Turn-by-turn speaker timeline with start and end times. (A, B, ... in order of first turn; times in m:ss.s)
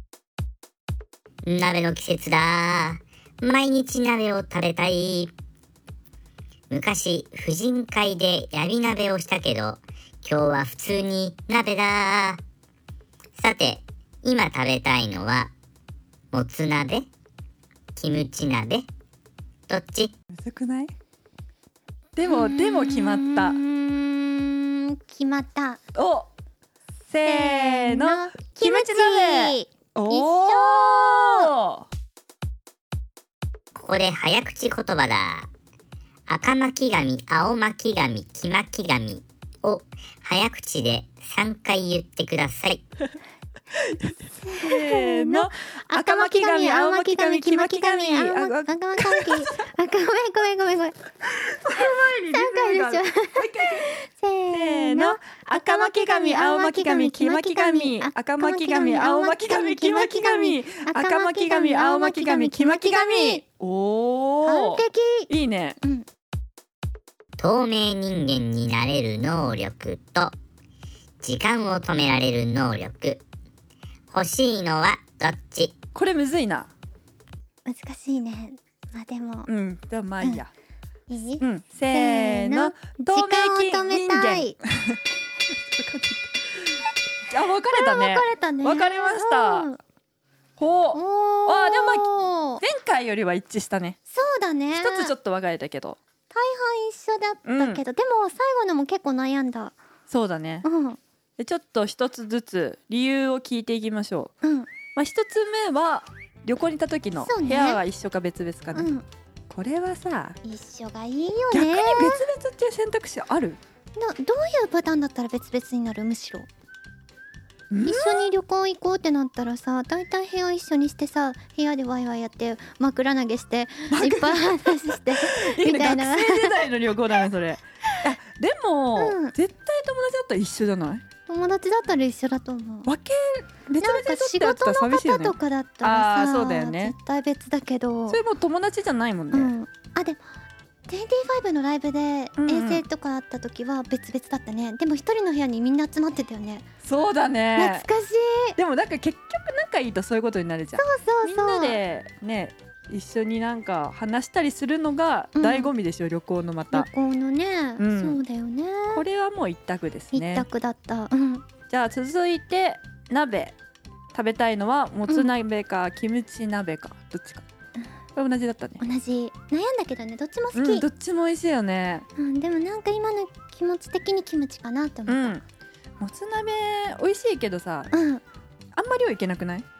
0:01.4-0:05.3 A
0:06.7-0:12.4 A
0:13.4-0:15.5 A
0:16.3-0:17.1 A
0:18.0-0:18.9 A
0:19.7-0:20.1 A
0:20.3-0:20.9 B
0:22.2-0:23.6 B
0:22.2-0:25.8 C
0:26.0-0:26.3 B
0:27.1-0:31.9 B
0:27.2-0:31.5 C
0:33.8-0:35.5 A
0:36.3-0:42.8 A
0:43.9-0:49.6 B
0:44.4-0:51.0 C
0:51.6-0:53.9 B
0:51.7-1:03.4 C
0:54.5-1:05.8 B
1:04.4-1:05.3 C
1:05.8-1:06.1 C
1:07.4-1:10.3 A
1:11.2-1:13.2 A
1:14.1-1:15.8 A
1:16.0-1:16.7 B
1:17.6-1:19.5 C
1:19.5-1:20.5 B
1:21.1-1:24.6 C
1:21.4-1:25.0 B
1:25.5-1:26.3 B
1:27.3-1:29.7 B
1:27.7-1:29.8 C
1:30.6-1:34.0 B
1:30.9-1:32.6 C
1:34.1-1:35.1 C
1:34.8-1:36.0 B
1:36.3-1:39.8 C
1:37.4-1:37.8 B
1:40.1-1:40.7 B
1:40.6-1:41.0 C
1:41.4-1:44.3 B
1:44.4-1:44.7 C
1:45.0-1:48.9 B
1:47.2-1:47.8 C
1:48.7-1:49.0 C
1:49.5-1:50.4 B
1:50.4-1:52.2 C
1:51.5-1:53.6 B
1:54.0-1:56.5 C
1:57.7-1:58.3 B
1:57.8-2:06.7 C
2:03.9-2:11.0 B
2:09.0-2:09.3 C
2:11.3-2:12.9 C
2:12.9-2:17.0 B
2:13.8-2:18.2 C
2:18.1-2:19.5 B
2:19.3-2:20.2 C
2:20.9-2:26.7 C
2:22.4-2:22.8 B
2:26.8-2:27.9 B
2:27.6-2:28.6 C
2:28.6-2:36.9 B
2:30.8-2:31.8 C
2:35.4-2:35.7 C
2:36.7-2:39.0 C
2:37.8-2:38.2 B
2:38.9-2:40.5 B
2:40.1-2:41.4 C
2:41.7-2:43.5 B
2:44.1-2:47.4 B
2:48.2-2:48.8 B
2:48.8-2:50.9 C
2:50.5-2:52.1 B
2:52.2-2:55.4 C
2:55.1-2:55.4 B
2:56.0-2:57.9 B
2:57.9-2:58.2 C
2:58.8-2:59.6 B